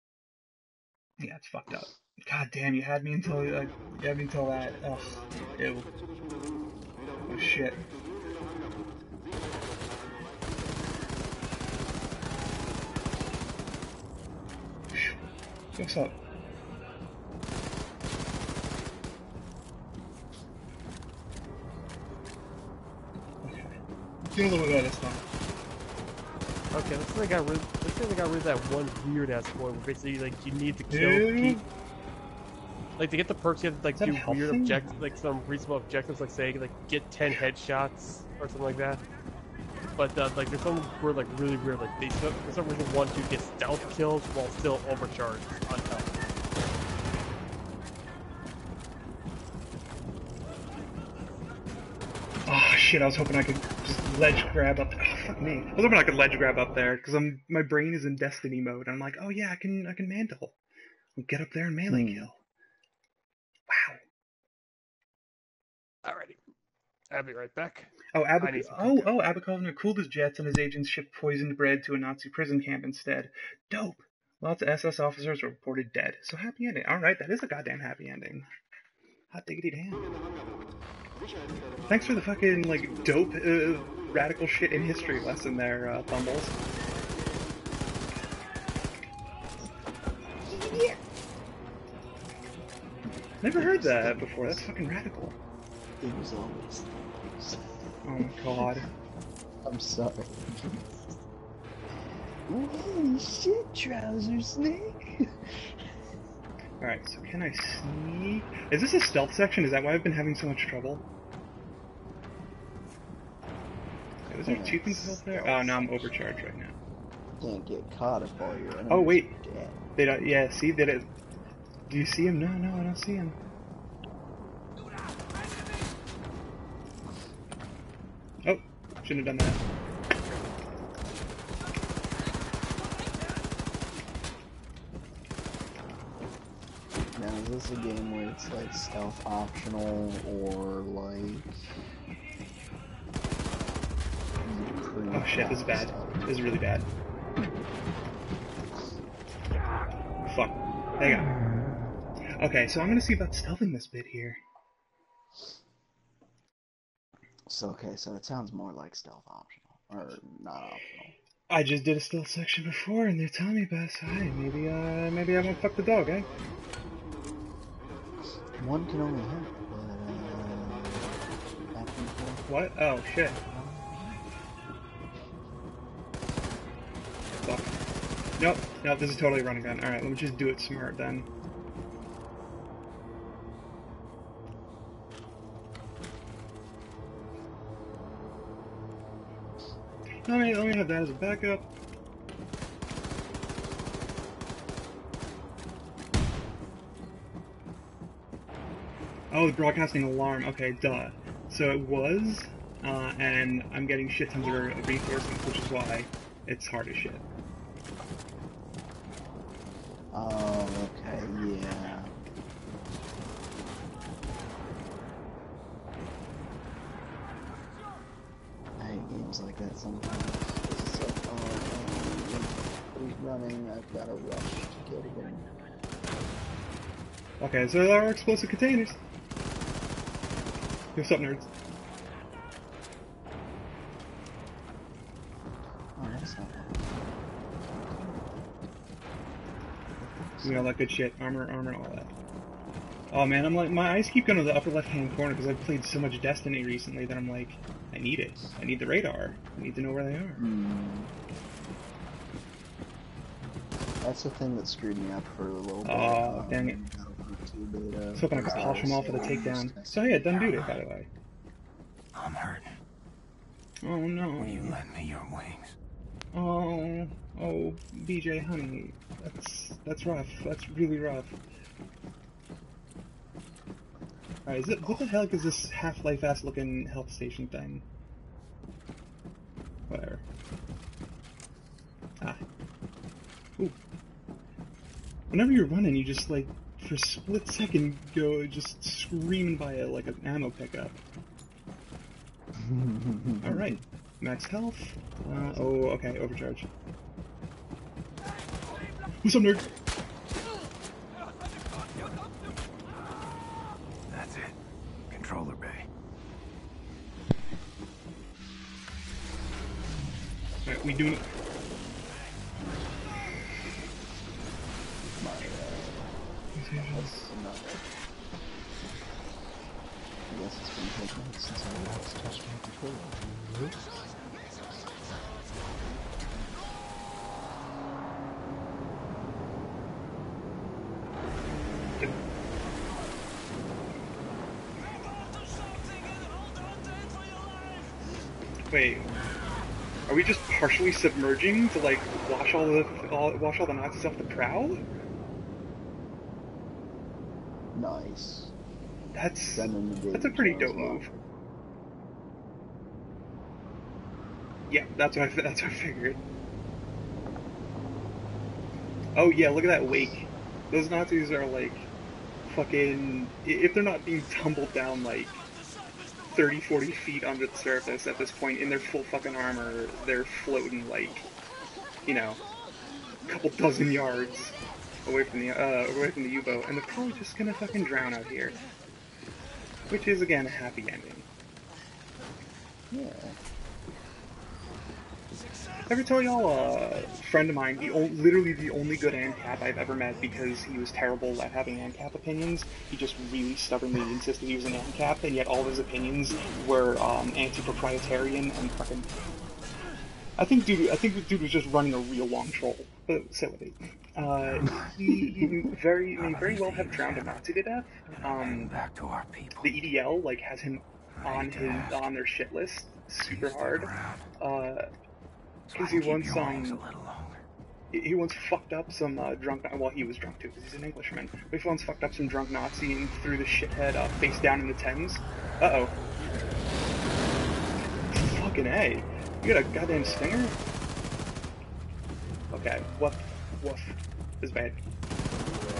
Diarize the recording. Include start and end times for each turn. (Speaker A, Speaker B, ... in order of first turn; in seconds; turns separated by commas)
Speaker A: 1.2-5.9, Speaker A: 7.3-7.8, Speaker A: 15.8-16.1, Speaker A: 23.4-25.2, Speaker B: 26.7-31.6, Speaker A: 30.9-31.6, Speaker B: 33.0-39.0, Speaker A: 34.0-35.1, Speaker B: 40.0-46.2, Speaker A: 52.5-60.5, Speaker A: 61.2-62.4, Speaker C: 61.9-62.3, Speaker A: 63.7-64.0, Speaker B: 66.0-66.4, Speaker B: 67.1-69.1, Speaker A: 68.1-78.5, Speaker A: 79.3-80.1, Speaker A: 81.9-86.5, Speaker C: 90.6-90.9, Speaker A: 93.4-95.4, Speaker C: 93.5-94.7, Speaker C: 96.0-98.8, Speaker A: 98.0-98.9, Speaker C: 99.7-101.1, Speaker C: 102.5-105.2, Speaker A: 106.8-111.0, Speaker A: 114.3-116.8, Speaker C: 114.4-116.1, Speaker C: 117.4-119.8, Speaker A: 118.9-119.3, Speaker A: 120.0-121.1, Speaker A: 121.9-123.4, Speaker A: 128.4-129.6, Speaker C: 137.1-141.8, Speaker C: 144.4-146.4, Speaker A: 145.1-146.9, Speaker A: 150.3-151.3, Speaker A: 152.4-154.4, Speaker C: 157.5-161.2, Speaker A: 161.5-166.3, Speaker C: 168.6-171.2, Speaker C: 171.7-172.5, Speaker A: 172.5-173.4, Speaker C: 173.3-174.2, Speaker A: 177.4-177.8, Speaker A: 178.4-181.3, Speaker A: 190.3-191.7, Speaker A: 199.3-207.2, Speaker C: 210.1-212.1, Speaker C: 218.8-225.5, Speaker A: 227.4-229.0, Speaker A: 231.0-231.5, Speaker C: 235.9-238.5, Speaker C: 240.0-240.8, Speaker A: 240.4-242.1, Speaker A: 243.1-250.4, Speaker C: 250.4-251.1, Speaker C: 254.0-260.2, Speaker A: 255.8-256.8, Speaker A: 258.1-261.1, Speaker D: 260.3-260.8, Speaker D: 262.1-262.8, Speaker A: 263.8-264.8, Speaker D: 264.4-265.8, Speaker A: 266.3-271.4, Speaker A: 274.5-277.9, Speaker A: 279.9-280.2, Speaker A: 285.3-291.0, Speaker C: 292.6-293.8, Speaker A: 293.4-296.7, Speaker C: 295.3-295.9, Speaker A: 299.2-299.7, Speaker D: 304.1-304.6, Speaker D: 305.1-305.9, Speaker A: 310.6-311.2, Speaker C: 315.2-316.1, Speaker A: 316.5-317.1, Speaker C: 316.8-317.9, Speaker C: 320.3-324.1, Speaker A: 338.7-339.1, Speaker A: 340.1-344.8, Speaker C: 347.7-348.5, Speaker A: 349.1-351.1, Speaker C: 349.5-351.3, Speaker A: 354.7-356.2, Speaker A: 359.1-361.9, Speaker A: 362.5-365.4, Speaker A: 366.3-371.3, Speaker A: 372.1-372.4, Speaker A: 373.3-378.6, Speaker A: 379.9-381.3, Speaker C: 382.9-383.4, Speaker A: 385.9-399.1, Speaker A: 400.4-408.8, Speaker D: 404.4-404.9, Speaker D: 406.2-407.4, Speaker D: 408.2-409.8, Speaker A: 409.6-414.8, Speaker D: 411.2-412.0, Speaker D: 413.2-414.2, Speaker D: 415.7-417.4, Speaker A: 415.7-416.9, Speaker A: 417.9-425.9, Speaker A: 428.1-430.6, Speaker A: 432.5-434.8